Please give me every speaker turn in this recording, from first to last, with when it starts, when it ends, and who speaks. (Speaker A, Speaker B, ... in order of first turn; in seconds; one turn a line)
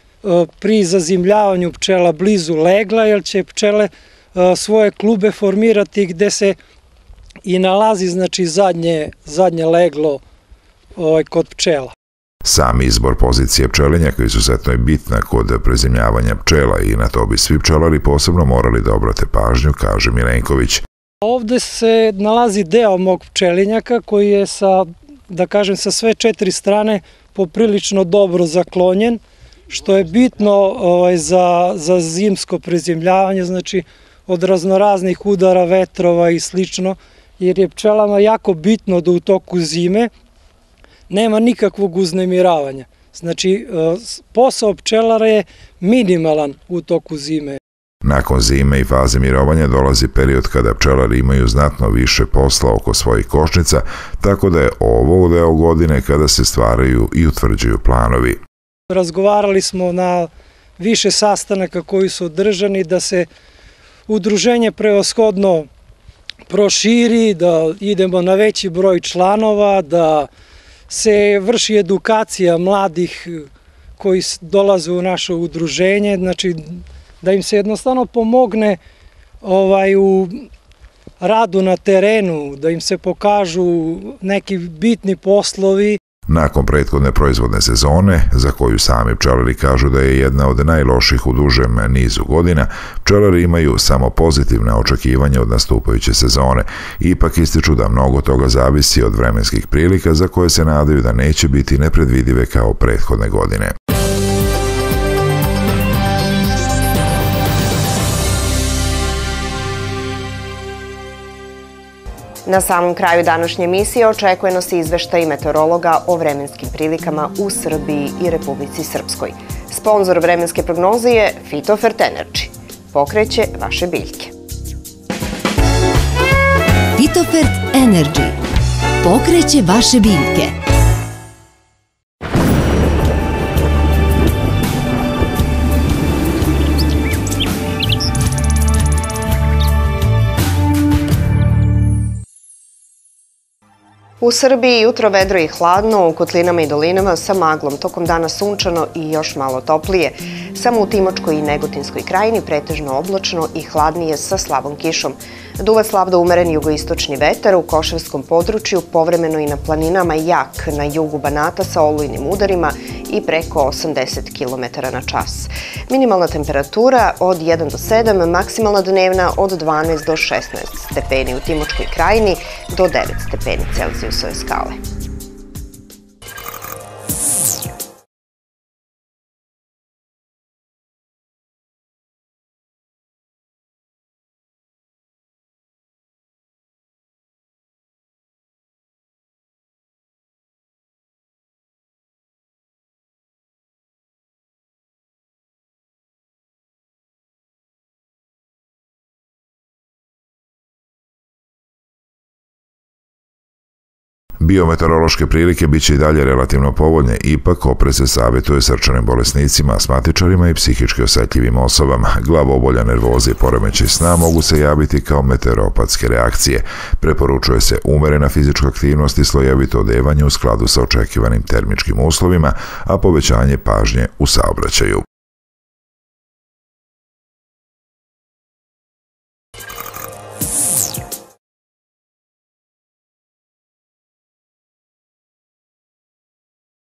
Speaker A: 0.2-6.5
Speaker A: 7.5-10.2
Speaker A: 11.0-11.9
Speaker B: 12.4-20.8
Speaker A: 21.2-40.1
Speaker A: 41.1-47.6
Speaker B: 48.0-58.4
Speaker A: 58.9-63.3
Speaker A: 64.1-65.7
Speaker A: 66.5-70.3
Speaker A: 70.9-73.5
Speaker A: 74.0-78.8
Speaker A: 79.5-80.3
Speaker A: 81.2-86.0
Speaker B: 86.3-103.7
Speaker C: 112.5-124.3
Speaker D: 127.0-128.4
Speaker D: 129.0-130.5
Speaker C: 144.2-174.8
Speaker B: 204.4-225.0